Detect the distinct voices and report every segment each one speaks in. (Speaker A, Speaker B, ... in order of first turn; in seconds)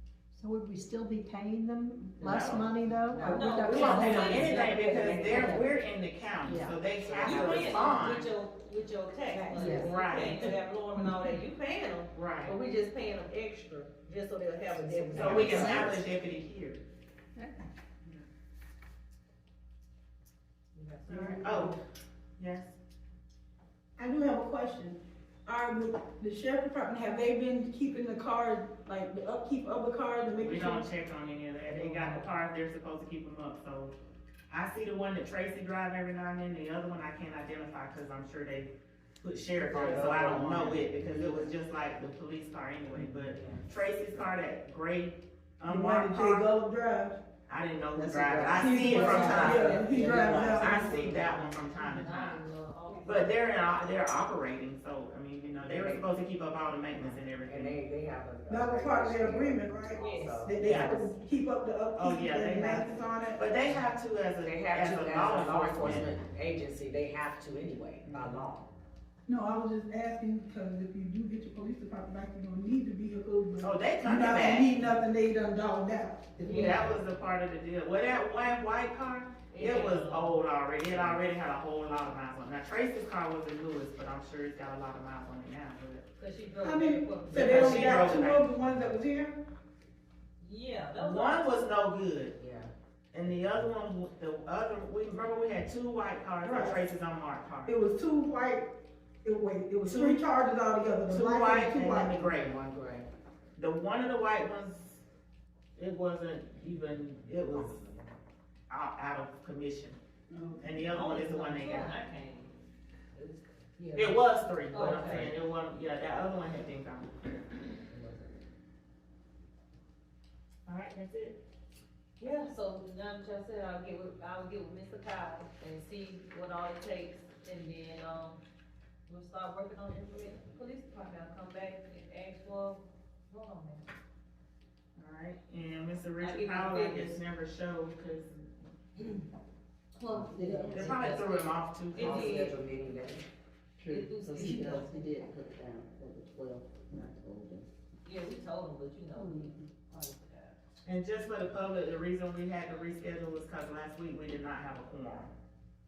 Speaker A: 0.3-5.7, 6.5-6.8, 9.4-9.9, 15.4-15.9, 144.8-145.6, 149.2-149.5
Speaker B: 2.2-2.7, 3.6-8.3, 9.6-10.5, 12.1-12.6, 15.1-16.8, 21.1-21.8, 22.4-22.8, 30.4-33.9, 34.5-46.5, 47.5-52.4, 53.1-57.8, 60.6-61.1, 62.0-66.2, 68.0-68.5, 73.6-74.7, 76.4-86.0, 87.3-88.5, 91.0-92.3, 93.1-97.8, 99.9-100.2, 101.1-102.5, 103.6-105.0, 105.8-107.8, 108.7-110.0, 110.6-112.0, 114.0-117.1, 120.7-121.4, 135.0-138.3, 140.7-142.4, 150.8-155.3
Speaker C: 3.2-4.0, 4.5-5.6, 7.0-8.0, 15.1-15.4, 39.6-41.5, 43.0-43.6, 47.9-51.3, 55.6-56.1, 57.0-60.7, 64.4-68.7, 80.9-81.2, 92.4-92.7, 102.0-103.1, 107.5-108.0, 141.9-143.2
Speaker D: 3.2-4.9, 7.2-16.0, 20.7-21.8, 48.9-53.4, 60.0-60.5, 76.4-76.9, 79.5-80.4, 86.2-88.3, 90.4-91.5, 110.8-112.5, 113.2-115.3, 117.9-118.2, 122.2-128.4, 129.1-133.9, 136.2-137.2, 139.0-139.3, 139.9-142.6, 143.8-144.9, 148.1-150.6
Speaker E: 15.2-15.8, 49.1-50.7, 140.1-141.1, 144.2-147.6
Speaker F: 24.0-30.8, 45.7-47.2, 48.6-51.0, 58.5-63.5, 69.3-76.9, 86.6-89.4, 96.4-96.8, 97.7-98.7, 99.2-102.2, 110.3-110.8